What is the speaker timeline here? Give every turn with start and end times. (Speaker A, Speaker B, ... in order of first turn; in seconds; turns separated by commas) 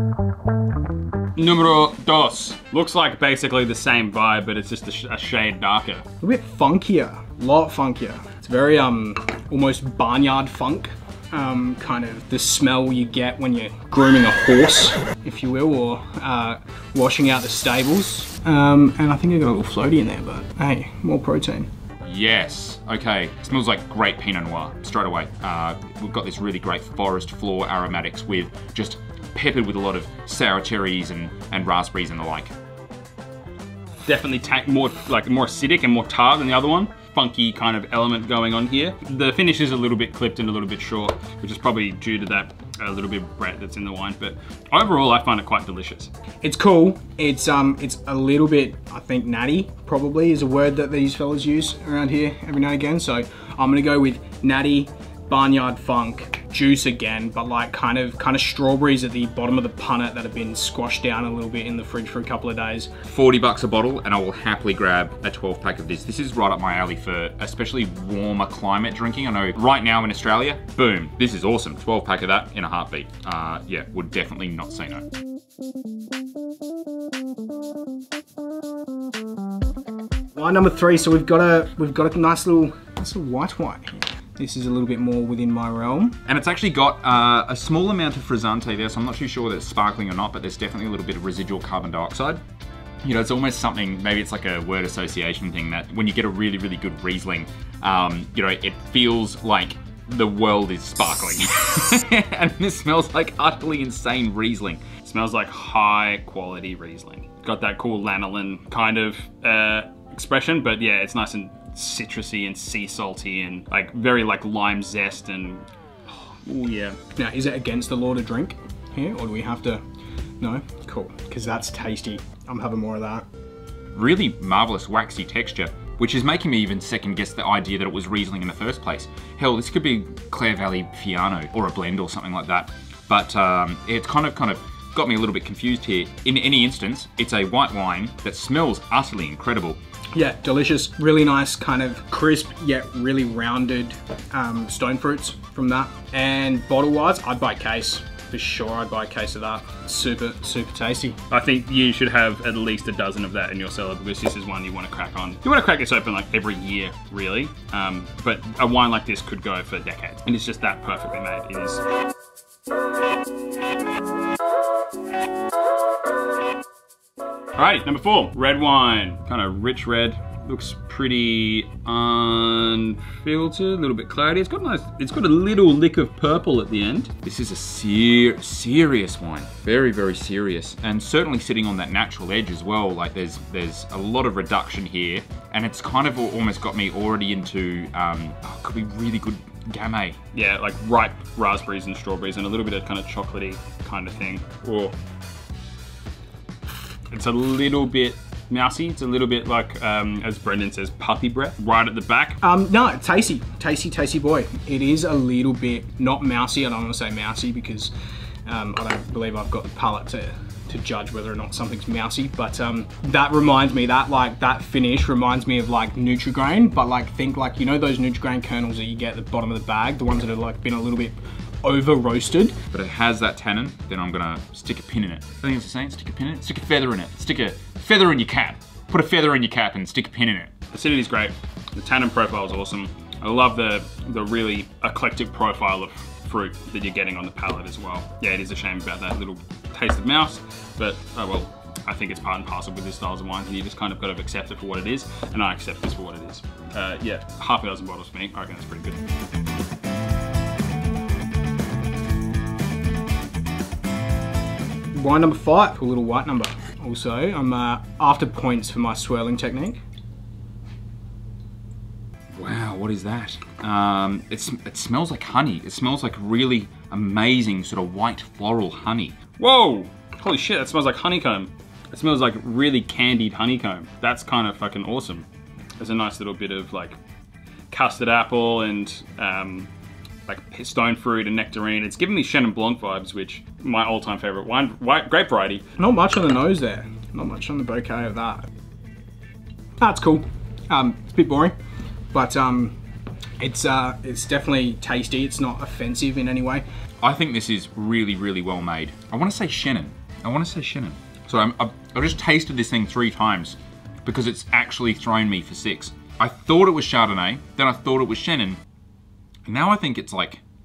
Speaker A: 1.4-6.0, Speaker B: 6.2-21.7, Speaker C: 22.0-32.5, Speaker A: 34.0-46.1, Speaker B: 46.4-62.9, Speaker C: 63.1-75.0, Speaker B: 80.3-86.2, Speaker C: 86.2-92.4, Speaker C: 93.0-104.8, Speaker A: 105.0-117.0, Speaker B: 117.2-119.8, Speaker B: 120.4-123.2, Speaker C: 123.9-139.8, Speaker B: 140.1-151.2, Speaker A: 151.3-161.8, Speaker A: 167.6-177.1, Speaker C: 177.2-190.2, Speaker A: 190.3-194.9, Speaker A: 197.1-202.4, Speaker B: 202.4-207.9, Speaker B: 208.4-222.6, Speaker C: 222.7-230.5, Speaker A: 230.7-249.0, Speaker B: 254.9-259.8, Speaker C: 262.3-269.2, Speaker A: 269.4-275.2, Speaker A: 275.8-277.0, Speaker A: 277.7-279.7, Speaker A: 280.3-285.6, Speaker B: 285.8-288.4, Speaker B: 289.8-291.5, Speaker B: 292.1-292.8, Speaker B: 293.4-296.6, Speaker C: 297.0-308.6, Speaker C: 309.5-310.4